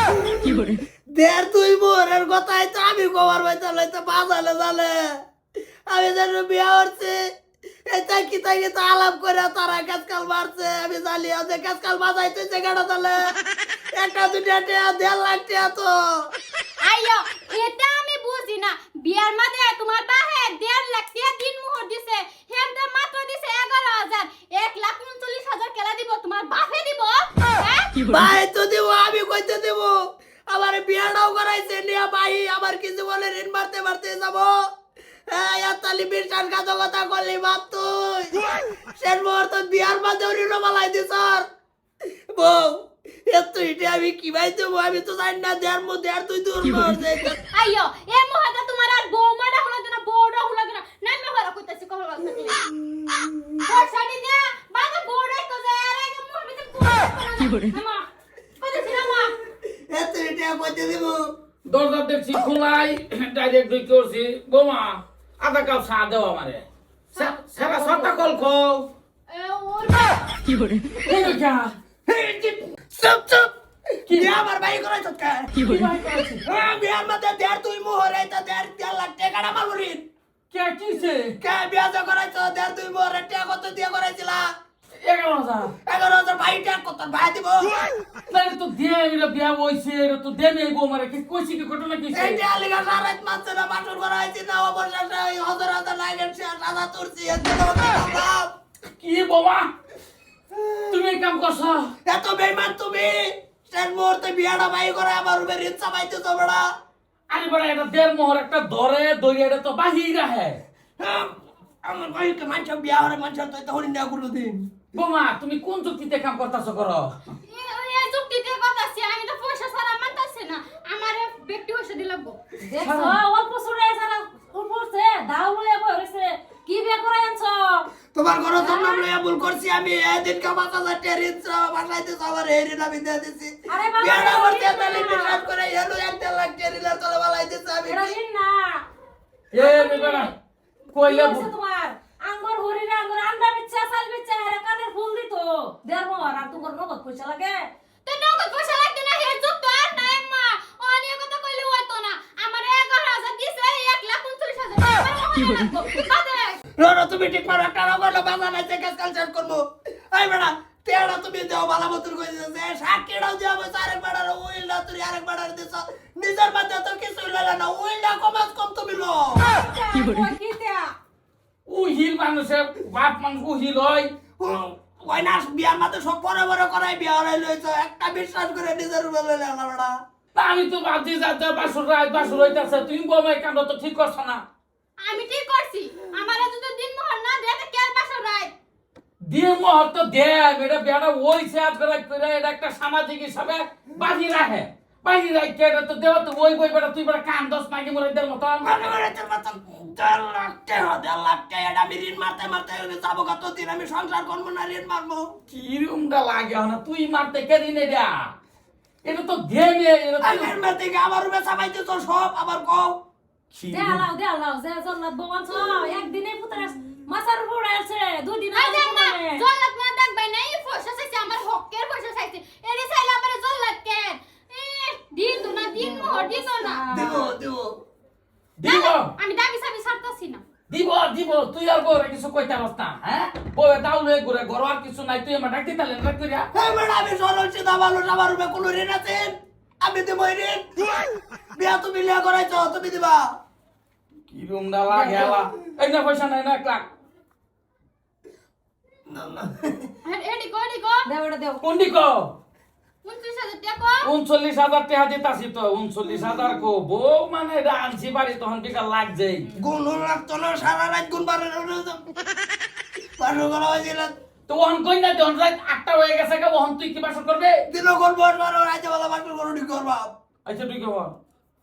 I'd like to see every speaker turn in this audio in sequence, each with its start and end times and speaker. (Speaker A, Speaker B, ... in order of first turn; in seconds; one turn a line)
Speaker A: 0.4-5.2
Speaker A: 5.9-7.2
Speaker A: 7.9-13.2
Speaker A: 13.9-16.1
Speaker B: 16.8-27.9
Speaker A: 28.1-29.9
Speaker A: 30.5-34.5
Speaker A: 35.3-38.3
Speaker A: 39.0-41.4
Speaker A: 42.4-47.4
Speaker B: 47.5-52.6
Speaker A: 53.0-53.5
Speaker B: 53.6-58.0
Speaker B: 58.6-59.3
Speaker A: 59.9-61.3
Speaker C: 61.6-68.9
Speaker B: 67.1-68.4
Speaker B: 69.3-70.3
Speaker C: 71.0-71.7
Speaker A: 72.0-73.5
Speaker C: 74.1-74.3
Speaker A: 74.1-75.6
Speaker C: 75.5-76.4
Speaker A: 76.5-80.0
Speaker C: 80.5-81.3
Speaker A: 81.4-84.5
Speaker C: 85.0-85.7
Speaker A: 85.8-87.8
Speaker C: 88.3-92.4
Speaker A: 92.1-98.5
Speaker C: 99.0-99.7
Speaker C: 100.9-101.9
Speaker A: 102.0-106.7
Speaker C: 107.3-110.6
Speaker A: 111.0-114.7
Speaker C: 114.9-117.1
Speaker B: 117.5-122.4
Speaker D: 122.6-127.8
Speaker C: 122.8-123.2
Speaker A: 128.1-138.1
Speaker D: 128.6-129.0
Speaker D: 133.7-135.4
Speaker D: 137.9-138.8
Speaker C: 139.5-140.3
Speaker D: 139.5-140.3
Speaker C: 140.9-141.5
Speaker D: 141.0-147.7
Speaker B: 148.0-156.6
Speaker A: 156.8-169.5
Speaker D: 169.4-170.9
Speaker C: 171.7-174.1
Speaker A: 174.4-179.9
Speaker C: 180.3-184.4
Speaker B: 185.0-188.5
Speaker C: 189.3-199.0
Speaker A: 198.6-205.3
Speaker C: 205.5-208.3
Speaker C: 209.0-210.5
Speaker A: 210.2-212.9
Speaker C: 213.5-214.0
Speaker D: 213.7-219.4
Speaker B: 218.5-226.8
Speaker D: 225.7-227.3
Speaker A: 226.9-227.7
Speaker C: 228.6-229.1
Speaker B: 228.6-230.4
Speaker C: 230.7-236.5
Speaker A: 236.5-240.7
Speaker A: 241.6-243.2
Speaker C: 244.3-246.9
Speaker D: 244.9-245.4
Speaker A: 249.1-249.9
Speaker B: 250.0-251.1
Speaker D: 251.1-251.6
Speaker C: 251.6-252.3
Speaker B: 253.0-254.1
Speaker C: 254.0-259.5
Speaker A: 259.5-262.1
Speaker A: 263.2-264.1
Speaker C: 264.5-267.6
Speaker A: 267.7-270.1
Speaker C: 270.4-271.2